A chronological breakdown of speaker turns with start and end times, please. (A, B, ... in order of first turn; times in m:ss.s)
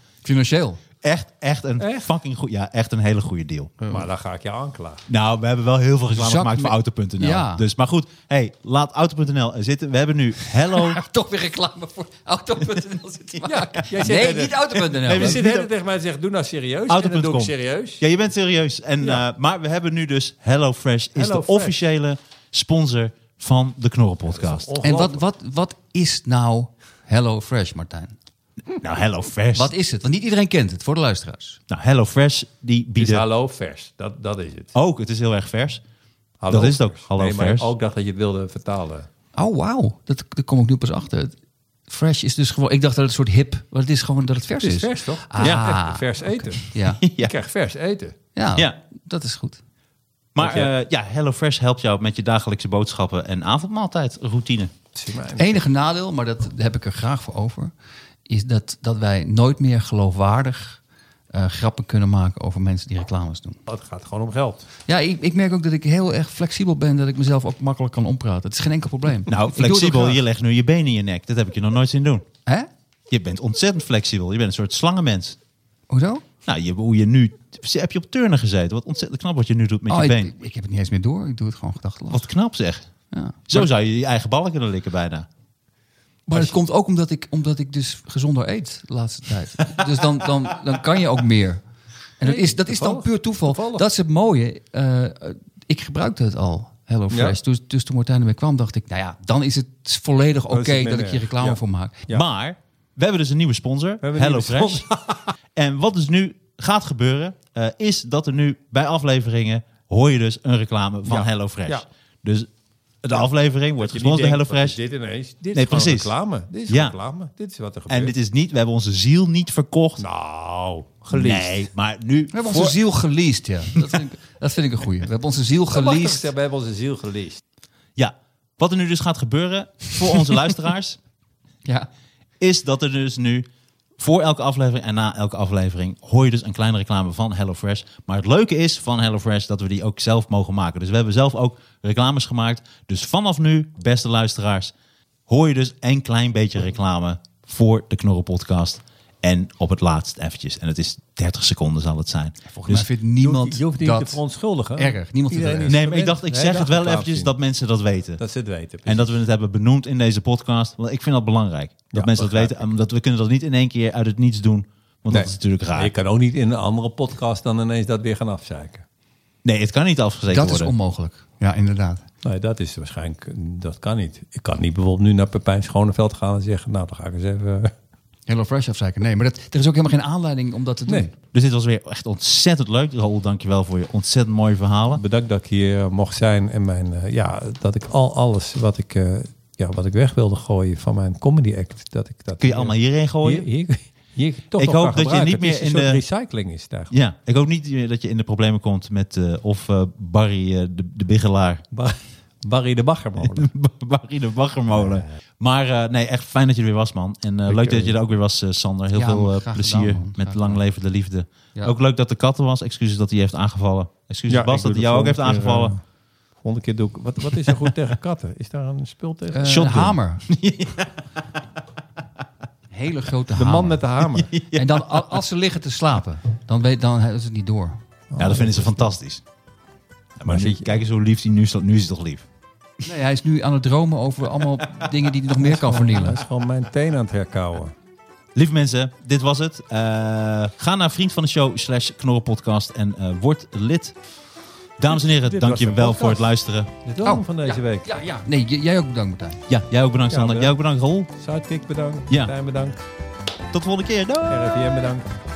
0:00.2-0:00.8 A
0:01.0-0:03.8 B
0:01.8-0:02.1 C
0:03.8-0:05.0 C
0:05.1-0:11.0 B
0:06.1-0:07.6 A
0:10.9-0:15.4 A
0:13.4-0:18.0 C
0:15.0-0:15.7 B
0:16.9-0:24.7 B
0:21.2-0:21.7 C
0:24.3-0:25.2 C
0:24.8-0:28.2 A
0:28.8-0:29.7 B
0:29.5-0:31.6 A
0:31.7-0:33.2 B
0:33.0-0:34.7 C
0:34.7-0:35.8 B
0:36.4-0:39.1 C
0:36.5-0:37.7 B
0:39.4-0:41.3 A
0:41.9-0:47.0 A
0:44.6-0:46.6 C
0:47.0-0:47.3 B
0:47.2-0:48.2 C
0:48.3-0:49.6 A
0:50.3-0:54.7 B
0:50.4-0:50.7 C
0:54.9-0:55.6 C
0:55.4-0:57.7 A
0:58.3-1:00.8 A
1:01.3-1:03.6 A
1:03.7-1:04.6 C
1:04.9-1:10.2 A
1:09.3-1:12.3 B
1:13.1-1:15.4 B
1:15.9-1:16.2 A
1:16.4-1:20.3 B
1:19.9-1:22.2 A
1:22.1-1:22.9 B
1:23.1-1:23.4 A
1:23.5-1:25.3 B
1:26.3-1:31.6 A
1:32.2-1:42.0 A
1:32.2-1:33.8 C
1:37.1-1:37.4 C
1:40.5-1:42.2 C
1:42.1-1:44.8 B
1:44.0-1:45.3 C
1:45.6-1:52.5 B
1:51.0-1:51.8 C
1:53.0-1:54.8 B
1:53.8-1:58.1 C
1:55.5-1:56.1 B
1:56.7-1:57.0 B
1:57.9-2:00.0 B
2:00.0-2:01.6 C
2:01.1-2:02.8 B
2:02.3-2:06.3 A
2:05.7-2:07.4 C
2:08.0-2:11.0 B
2:12.4-2:13.5 B
2:14.0-2:24.7 B
2:25.3-2:32.9 B
2:32.5-2:34.2 A
2:33.2-2:37.3 C
2:34.8-2:35.8 A
2:35.6-2:38.2 B
2:38.2-2:39.1 C
2:38.8-2:45.9 B
2:41.9-2:42.6 C
2:45.1-2:48.8 C
2:49.4-2:50.7 B
2:50.3-2:52.0 A
2:52.2-2:57.7 C
2:58.3-3:01.1 A
3:01.3-3:05.0 B
3:04.9-3:16.9 C
3:12.4-3:13.5 B
3:14.6-3:16.0 B
3:16.9-3:21.6 B
3:21.7-3:23.5 C
3:23.2-3:35.7 B
3:27.5-3:28.0 C
3:28.9-3:30.6 A
3:34.3-3:35.8 C
3:36.4-3:39.5 C
3:39.3-3:40.2 A
3:39.4-3:41.0 B
3:42.7-3:43.8 A
3:43.3-3:44.3 C
3:44.1-3:45.1 B
3:44.5-3:47.8 A
3:48.1-3:48.9 C
3:48.2-3:49.2 B
3:50.2-3:52.2 B
3:50.2-3:50.7 C
3:52.8-3:56.2 A
3:55.4-3:57.7 C
3:58.3-4:04.0 B
4:04.8-4:06.7 B
4:05.0-4:07.9 C
4:07.0-4:09.4 A
4:09.5-4:11.1 B
4:10.1-4:10.5 C
4:11.1-4:12.8 C
4:13.5-4:14.5 B
4:14.3-4:15.0 C